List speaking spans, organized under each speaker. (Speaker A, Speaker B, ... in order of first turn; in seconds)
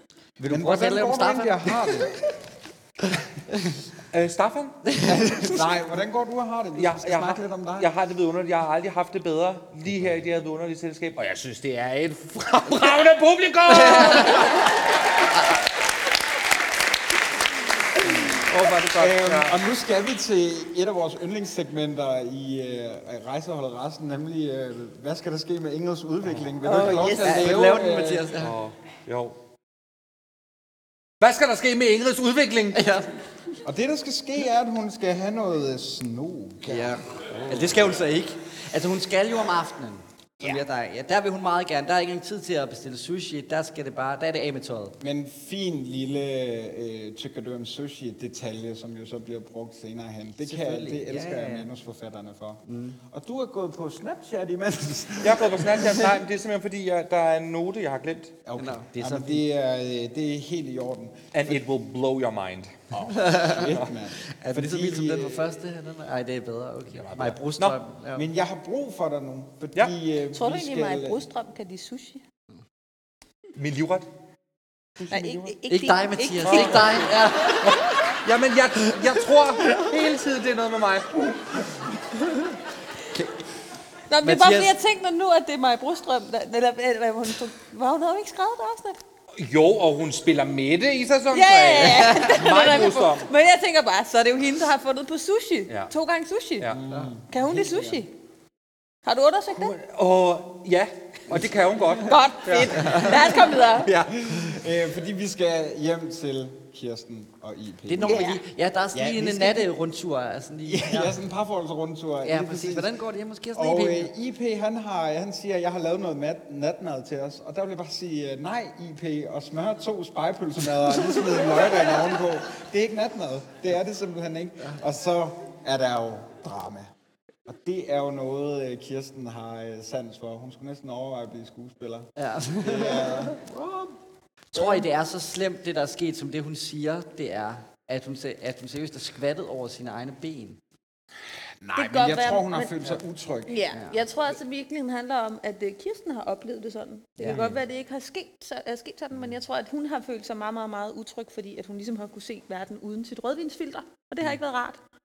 Speaker A: 0.4-2.1, 4.9-5.5, 13.7-14.5, 26.8-28.6, 32.7-33.1, 36.7-45.0, 50.4-51.7, 52.7-53.0, 58.6-59.4, 63.1-63.7, 64.4-68.3, 75.7-77.7, 83.1-83.4, 84.2-84.8, 92.0-92.3, 96.9-97.1, 107.9-111.2, 112.2-114.1, 132.2-133.4, 134.5-140.6, 143.7-144.0
Speaker B: 0.5-2.3, 5.0-7.9, 18.9-28.3, 33.6-37.0, 45.0-56.1, 58.5-61.6, 62.9-65.5, 68.2-71.2, 96.7-98.0, 104.0-108.4, 108.9-109.7, 110.7-112.9, 113.5-126.9, 127.5-132.1, 132.6-133.8, 134.6-134.8, 141.6-143.7
Speaker C: 4.1-4.8, 6.8-14.7, 18.3-19.6, 28.4-29.4, 31.2-32.8, 37.3-37.8, 55.2-58.4, 61.3-62.7, 66.9-67.8, 73.6-74.1, 75.0-75.5, 76.4-77.1, 77.6-81.4, 89.3-93.3, 99.5-104.4, 147.3-147.6
Speaker D: 26.6-27.6, 70.3-72.2, 75.1-77.1, 84.1-89.0, 91.3-96.7, 97.3-98.1, 99.0-99.8, 102.1-103.9, 108.0-108.4, 141.8-142.7, 143.5-154.8